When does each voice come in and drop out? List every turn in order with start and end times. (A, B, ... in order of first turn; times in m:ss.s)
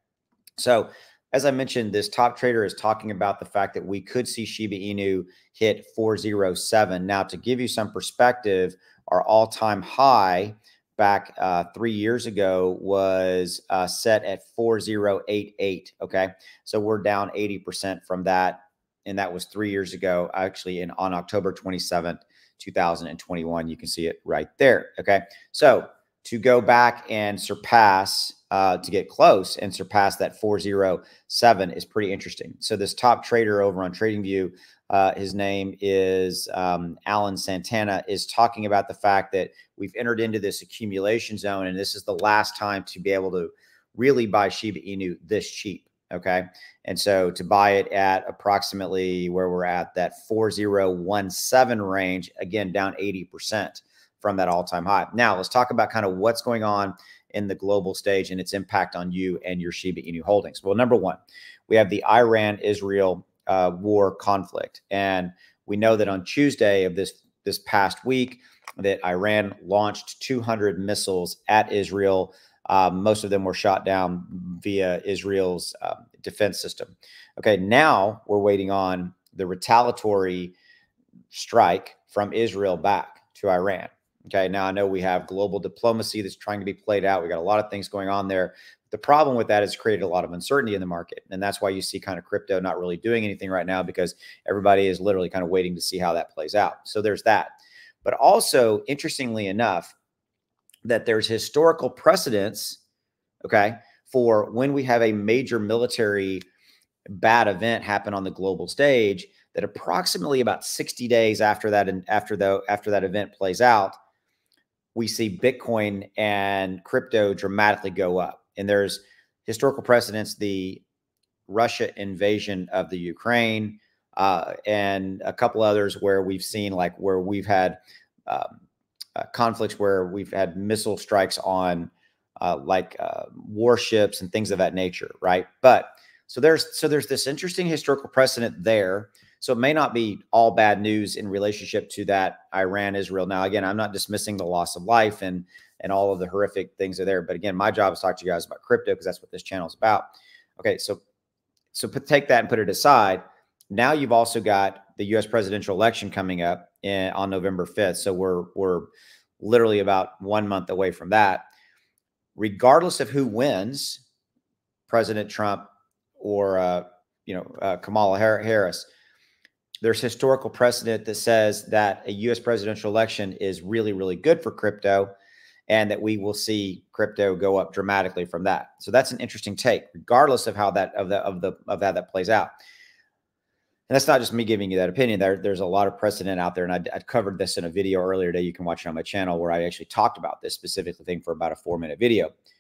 0:00.6-1:20.6 A
1:21.3-1:37.5 A
1:38.0-1:40.0 A
1:40.8-1:42.8 A
1:43.4-1:46.4 A
1:47.1-1:54.0 A
1:55.0-2:00.8 A
2:01.5-2:08.6 A
2:09.2-2:30.1 A
2:30.6-2:31.0 A
2:31.7-2:38.9 A
2:39.4-2:41.4 A
2:42.4-2:44.0 A
2:44.9-2:48.9 A
2:49.8-2:55.1 A
2:55.7-3:02.5 A
3:03.9-3:12.3 A